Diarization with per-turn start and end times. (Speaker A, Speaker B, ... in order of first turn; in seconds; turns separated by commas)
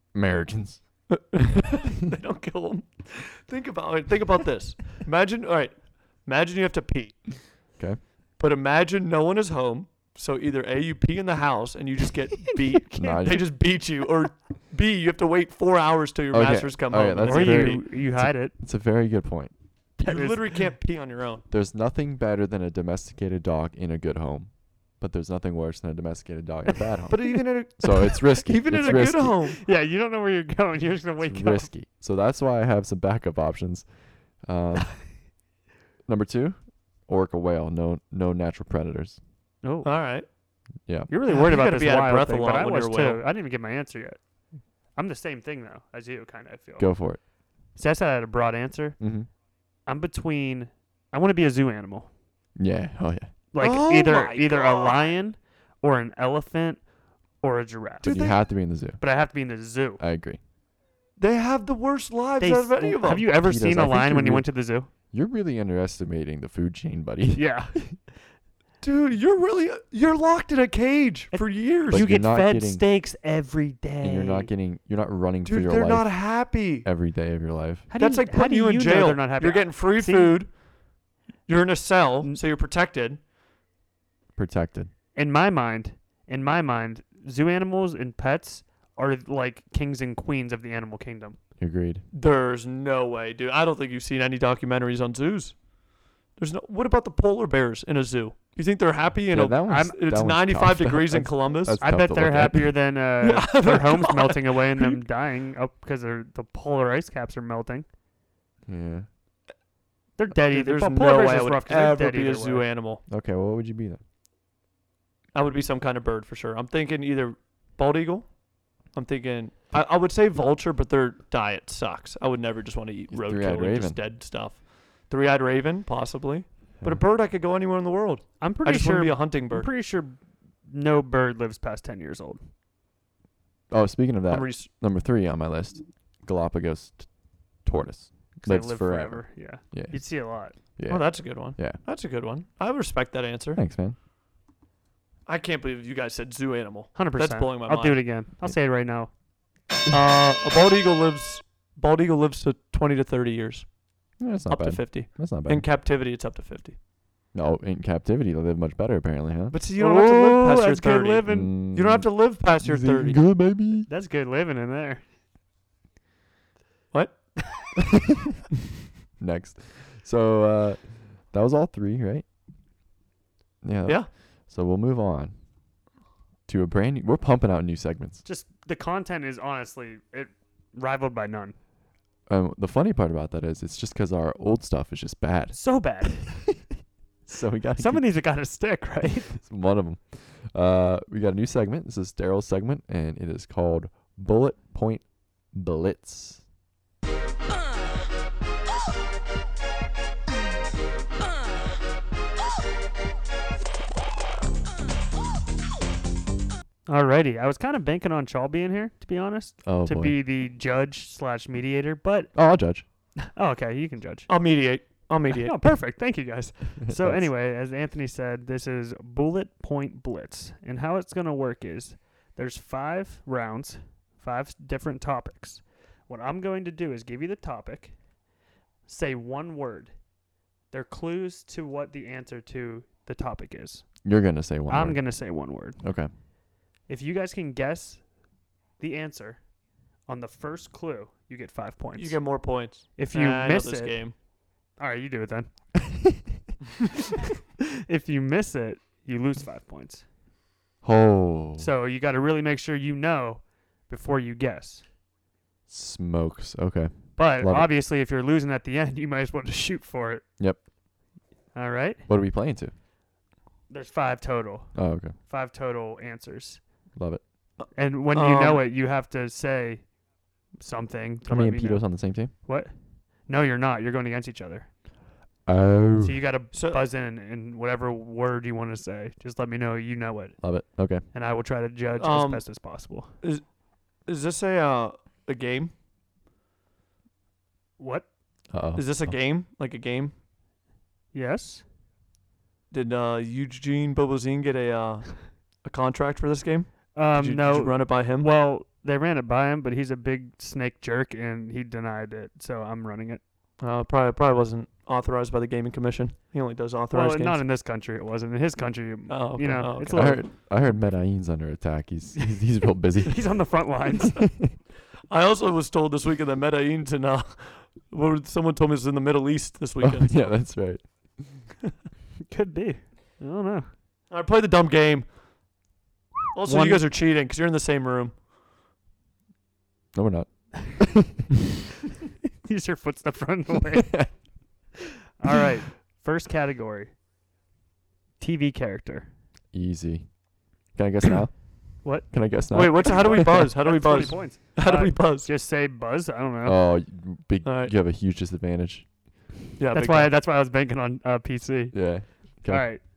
Speaker A: 0.1-1.2, Speaker B: 1.1-7.4, Speaker B: 8.4-17.8, Speaker A: 13.0-13.4, Speaker A: 16.3-19.5, Speaker C: 17.2-18.5, Speaker B: 20.0-21.4, Speaker C: 20.0-20.4, Speaker A: 21.5-29.4, Speaker B: 27.1-29.6, Speaker C: 28.8-31.7, Speaker A: 31.2-35.1, Speaker A: 36.0-39.2, Speaker C: 39.6-39.9, Speaker B: 39.8-40.2, Speaker C: 41.1-44.2, Speaker B: 41.3-43.2, Speaker C: 45.0-46.9, Speaker A: 46.8-47.2, Speaker C: 47.7-49.0, Speaker A: 49.0-49.3, Speaker C: 49.9-52.1, Speaker A: 52.5-53.3, Speaker C: 53.5-56.8, Speaker B: 53.6-55.1, Speaker C: 57.4-58.1, Speaker B: 58.0-58.4, Speaker A: 58.0-59.0, Speaker C: 59.0-60.0, Speaker A: 60.0-60.4, Speaker B: 61.2-63.2, Speaker C: 62.4-64.9, Speaker A: 63.3-64.5, Speaker A: 65.1-67.5, Speaker C: 67.3-68.1, Speaker B: 68.8-72.0, Speaker C: 71.3-74.5, Speaker A: 71.9-72.8, Speaker A: 74.0-77.9, Speaker B: 75.4-76.9, Speaker C: 77.9-80.4, Speaker B: 78.0-80.5, Speaker B: 81.5-83.2, Speaker A: 84.3-84.9, Speaker C: 85.1-91.4, Speaker A: 91.6-92.0, Speaker B: 92.1-95.6, Speaker B: 96.3-101.8, Speaker A: 99.3-102.9, Speaker C: 101.8-107.8, Speaker B: 103.2-105.0, Speaker A: 108.7-109.1, Speaker C: 110.2-112.7, Speaker B: 110.5-113.0, Speaker A: 113.1-114.0, Speaker B: 115.3-129.7, Speaker A: 123.1-124.0, Speaker C: 128.4-132.4, Speaker A: 133.7-141.8, Speaker B: 134.3-134.7, Speaker C: 138.4-140.5, Speaker B: 140.9-143.6, Speaker A: 143.5-143.9, Speaker B: 145.2-148.0, Speaker C: 146.9-149.1, Speaker B: 149.9-153.7, Speaker A: 154.2-155.7, Speaker B: 154.5-156.8, Speaker A: 157.3-159.6, Speaker B: 159.5-163.2, Speaker C: 159.8-161.5, Speaker A: 161.2-163.9, Speaker C: 163.9-165.0, Speaker A: 169.2-172.2, Speaker A: 173.6-175.3, Speaker A: 176.5-178.2, Speaker C: 178.2-181.6, Speaker A: 182.3-186.2, Speaker C: 185.5-186.4, Speaker A: 187.3-188.1, Speaker C: 187.8-189.4, Speaker A: 189.3-196.4, Speaker C: 206.9-212.3, Speaker A: 209.6-210.2, Speaker A: 212.3-212.8, Speaker C: 213.3-214.3, Speaker B: 214.3-215.6, Speaker C: 215.3-227.9, Speaker A: 216.8-217.3, Speaker C: 228.9-229.9, Speaker C: 230.7-233.9, Speaker A: 234.0-236.1, Speaker C: 234.7-235.8, Speaker C: 236.9-238.0, Speaker C: 238.8-239.4, Speaker C: 240.1-242.4, Speaker B: 242.0-244.1, Speaker C: 242.9-244.0, Speaker C: 244.8-245.5, Speaker C: 247.9-250.0, Speaker A: 250.8-251.7, Speaker C: 251.6-254.8, Speaker A: 255.7-257.7, Speaker C: 257.1-260.2, Speaker C: 261.5-262.0, Speaker A: 262.1-262.7, Speaker C: 263.7-266.6, Speaker A: 264.7-265.1, Speaker A: 266.9-267.2, Speaker B: 267.6-268.6, Speaker C: 267.7-269.9, Speaker C: 270.6-272.7, Speaker A: 271.2-272.3, Speaker C: 273.2-274.7, Speaker A: 275.4-276.2, Speaker C: 276.0-280.4, Speaker B: 276.5-276.8, Speaker A: 280.4-281.0, Speaker C: 281.1-283.1, Speaker B: 282.0-282.4, Speaker B: 283.2-283.5, Speaker B: 284.0-285.7, Speaker C: 287.8-288.1, Speaker A: 288.5-289.1, Speaker B: 288.7-290.1, Speaker C: 291.1-291.6, Speaker B: 292.7-298.3, Speaker C: 296.9-303.2, Speaker B: 303.6-307.4, Speaker C: 306.9-310.3, Speaker B: 309.1-310.2, Speaker A: 309.9-313.6, Speaker C: 313.0-314.3, Speaker B: 315.1-320.4, Speaker A: 319.8-321.4, Speaker C: 322.3-323.7, Speaker B: 324.1-325.1, Speaker B: 326.3-328.1, Speaker C: 326.4-326.9, Speaker A: 329.9-331.1, Speaker C: 332.4-334.1, Speaker A: 333.8-334.1, Speaker C: 335.2-336.9, Speaker C: 338.2-339.1, Speaker A: 339.5-343.5, Speaker C: 341.8-342.1, Speaker B: 342.5-345.3, Speaker C: 342.6-346.6, Speaker A: 346.4-348.9, Speaker B: 347.4-347.7, Speaker B: 349.6-350.1, Speaker C: 349.7-351.8, Speaker A: 351.7-352.7, Speaker C: 352.4-352.8